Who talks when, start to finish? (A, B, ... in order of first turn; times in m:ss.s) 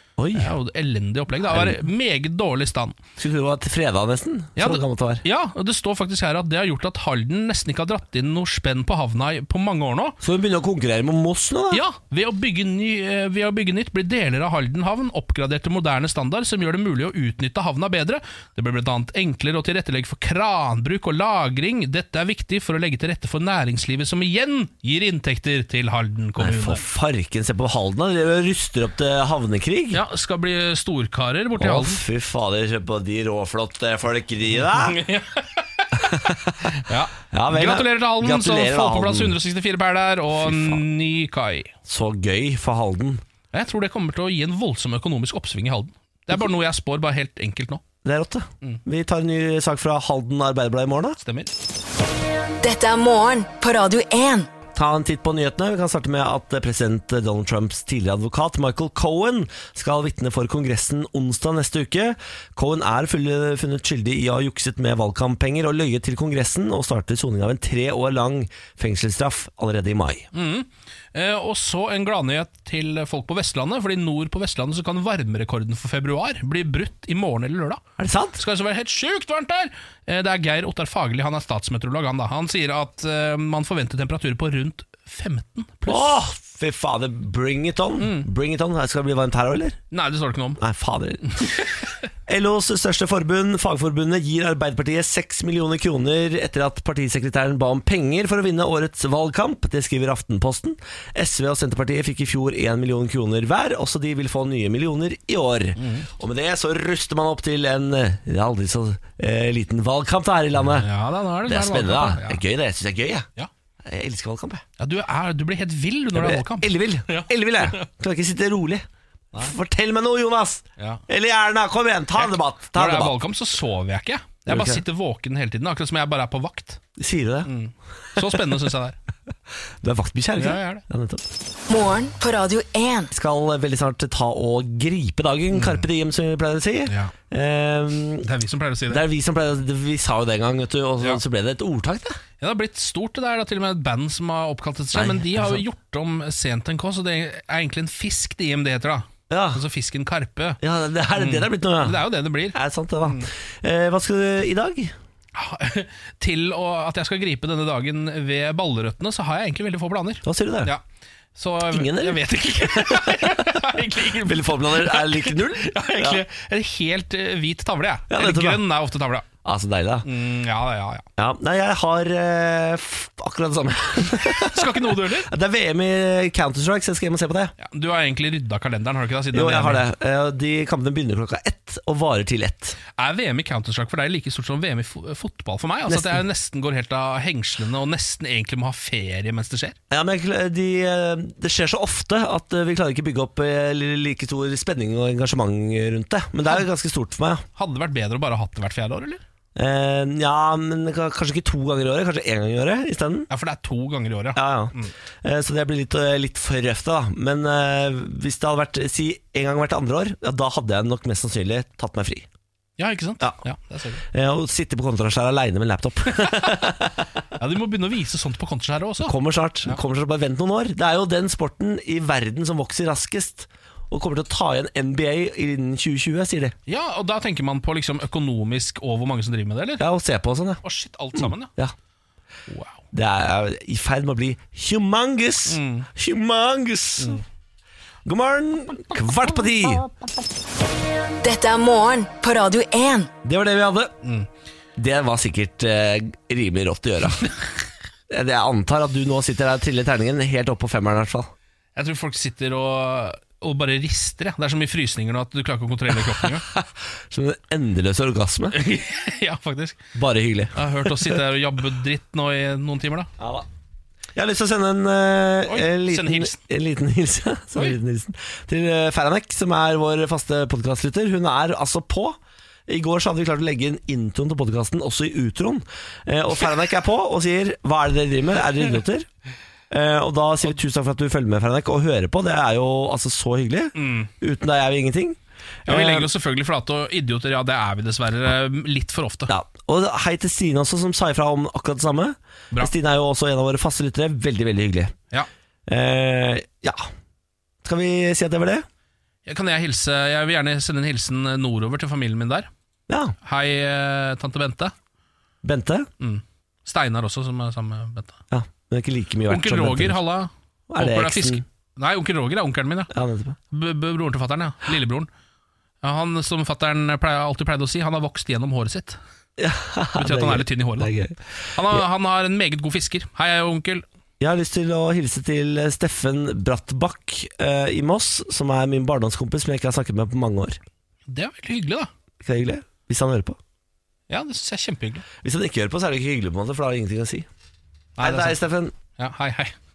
0:00.2-0:00.5 A
0:00.3-0:03.0 B
0:01.5-0:01.8 A
0:03.2-0:05.2 A
0:04.6-0:10.2 B
0:10.2-0:11.8 A
0:11.7-0:26.8 B
0:26.4-0:30.0 A
0:29.9-0:32.0 B
0:31.6-0:35.0 A
0:34.6-0:41.7 B
0:36.0-0:39.4 A
0:40.4-0:40.8 A
0:41.8-0:43.2 A
0:43.5-0:47.8 B
0:48.0-0:51.2 A
0:51.2-0:51.5 B
0:52.6-0:54.5 C
0:54.7-1:10.3 A
1:10.3-1:17.8 B
1:18.0-1:18.4 A
1:18.4-1:26.1 B
1:25.9-1:29.8 A
1:28.0-1:28.3 B
1:29.9-1:30.6 B
1:30.6-1:31.7 A
1:32.3-1:50.9 A
1:45.8-1:46.1 B
1:50.7-1:52.4 B
1:51.4-1:53.3 A
1:53.8-1:54.6 A
1:54.8-1:57.8 B
1:56.1-1:58.8 A
1:59.4-2:03.2 A
2:00.8-2:01.0 B
2:02.2-2:06.8 B
2:04.5-2:04.8 A
2:07.0-2:07.5 A
2:07.4-2:09.0 B
2:09.8-2:11.3 A
2:10.4-2:10.8 B
2:11.7-2:13.1 C
2:13.1-2:18.3 A
2:15.5-2:15.9 B
2:16.9-2:17.1 B
2:18.2-2:19.0 B
2:18.9-2:22.2 A
2:22.4-2:30.6 B
2:24.9-2:25.6 A
2:29.3-2:29.6 A
2:30.6-2:32.0 A
2:31.1-2:33.3 B
2:32.5-2:34.9 A
2:35.3-2:40.8 B
2:40.2-2:40.7 A
2:41.3-2:49.3 B
2:41.7-2:46.2 A
2:48.1-2:48.6 A
2:49.4-2:50.1 A
2:50.0-2:51.0 B
2:51.2-2:57.5 A
2:54.3-2:55.3 B
2:57.6-2:59.8 B
2:59.3-3:02.8 A
3:03.0-3:09.8 B
3:05.9-3:06.2 A
3:09.9-3:17.4 A
3:17.6-3:19.2 B
3:19.6-3:23.3 A
3:23.3-3:24.9 B
3:24.4-3:32.3 A
3:32.8-3:34.0 B
3:34.0-3:37.1 A
3:37.4-3:39.1 B
3:39.0-3:46.5 A
3:46.7-3:49.8 B
3:49.8-3:50.6 A
3:50.6-3:51.5 B
3:51.2-3:51.7 A
3:52.5-3:52.8 B
3:52.9-3:57.2 A
3:55.5-3:55.9 B
3:58.0-3:59.9 A
4:01.2-4:03.1 C
4:03.2-4:03.9 A
4:04.0-4:04.3 B
4:04.8-4:07.3 A
4:08.1-4:11.3 A
4:11.7-4:16.4 B
4:16.2-4:18.6 A
4:18.5-4:19.8 B
4:19.9-4:21.2 A
4:20.5-4:23.1 B
4:23.2-4:23.5 A
4:24.2-4:39.1 A
4:25.5-4:26.4 B
4:39.7-4:46.1 A
4:43.8-4:44.1 B
4:45.6-4:49.3 B
4:49.3-4:54.9 A
4:55.7-4:56.9 A
4:57.6-4:58.7 A
4:59.2-5:02.5 B
5:02.9-5:03.1 A
5:03.2-5:04.7 B
5:05.4-5:05.9 A
5:06.0-5:08.2 B
5:08.3-5:10.0 A
5:09.3-5:12.9 B
5:10.7-5:11.4 A
5:12.9-5:13.4 A
5:13.5-5:15.1 B
5:15.8-5:19.0 B
5:19.4-5:21.2 A
5:20.0-5:20.9 B
5:21.5-5:23.8 B
5:24.2-5:30.6 A
5:31.1-5:31.9 B
5:32.2-5:33.4 A
5:34.1-5:35.0 B
5:35.2-5:37.3 A
5:38.0-5:39.5 B
5:38.0-5:38.7 A